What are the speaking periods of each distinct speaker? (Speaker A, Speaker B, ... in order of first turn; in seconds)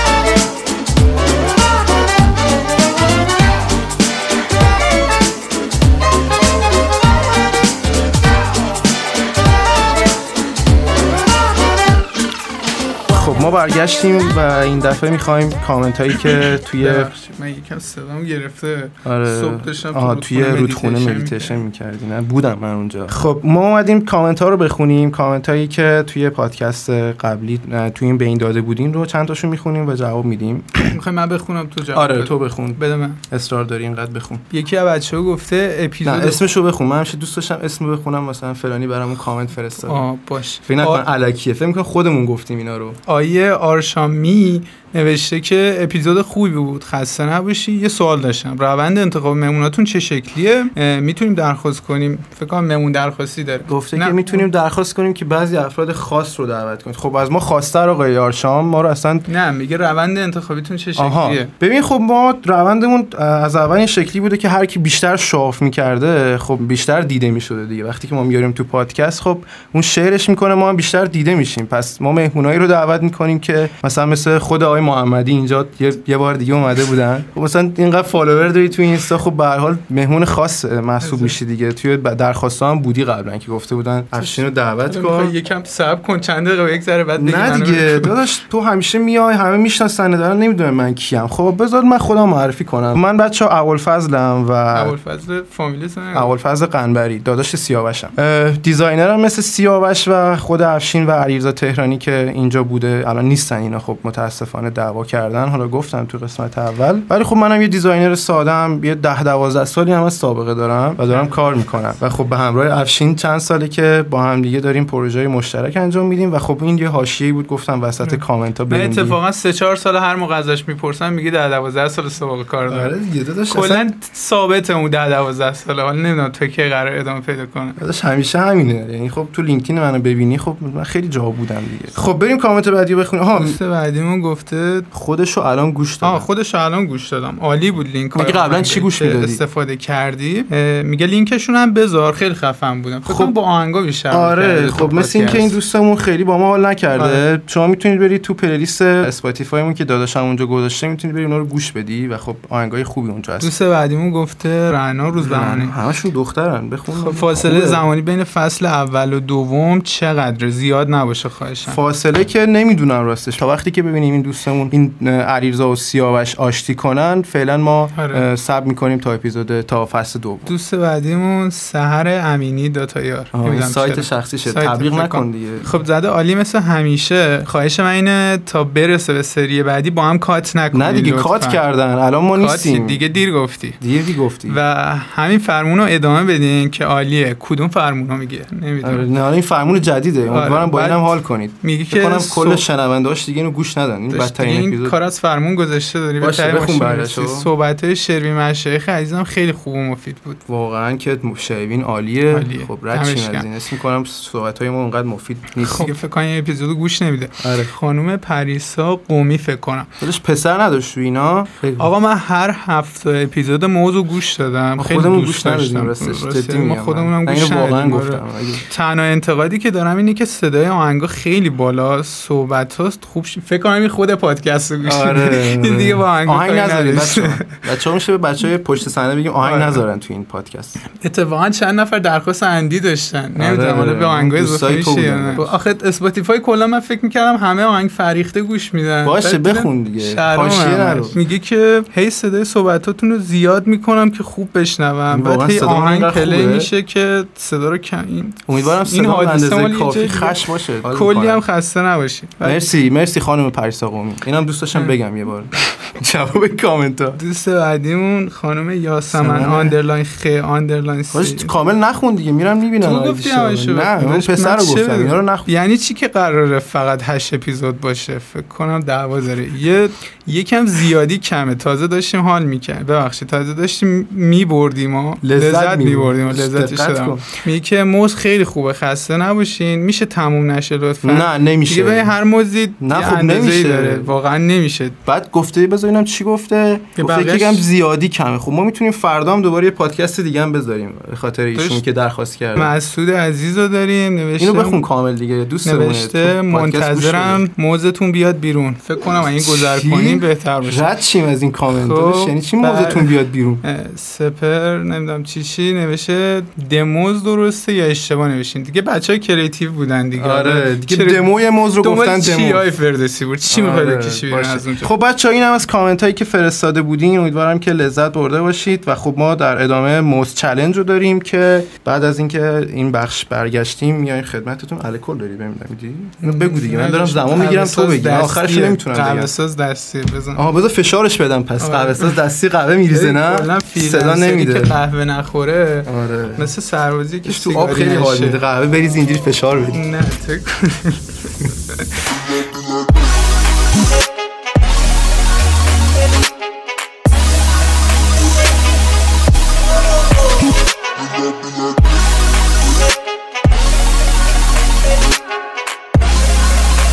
Speaker A: 13.1-17.1, 19.0-31.0, 31.9-34.4, 36.0-40.1, 40.6-43.0, 53.7-59.3, 61.0-85.3, 87.2-95.0, 96.1-119.2, 122.7-123.9, 127.8-133.6, 134.9-136.3, 138.2-139.4, 143.1-143.3, 144.1-153.5, 155.2-157.8, 161.7-170.5, 173.3-175.7, 180.7-183.0, 183.8-184.6, 188.8-195.0, 196.2-197.5, 200.5-205.9, 207.4-207.7, 210.0-211.9, 214.8-218.7, 224.8-230.8, 233.4-235.5, 239.0-241.2, 245.1-246.7, 248.5-251.4, 252.4-257.2, 259.1-259.8, 261.1-265.5, 275.2-277.2, 281.0-282.1, 282.8-284.1, 285.1-292.7, 294.4-297.4, 299.4-303.6, 310.1-312.7, 313.5-329.3, 330.3-334.8, 335.9-336.5, 337.2-339.8
Speaker B: 16.3-21.6, 30.9-33.2, 34.5-36.4, 39.8-41.0, 43.1-54.5, 59.3-61.5, 81.0-81.4, 84.2-88.1, 94.7-96.3, 111.1-111.4, 118.0-122.9, 123.5-127.8, 133.3-134.9, 136.0-145.6, 146.9-147.2, 153.4-155.8, 156.9-161.8, 167.9-168.3, 170.5-181.6, 182.4-183.8, 184.5-189.1, 190.3-192.6, 194.1-200.4, 202.3-203.5, 205.6-209.9, 211.8-227.5, 229.4-229.8, 230.9-252.7, 257.2-261.5, 262.8-285.0, 287.0-287.6, 291.6-291.8, 292.6-294.8, 295.6-300.9, 301.7-314.9, 326.2-330.4, 331.6-332.1, 332.9-338.4, 339.7-341.8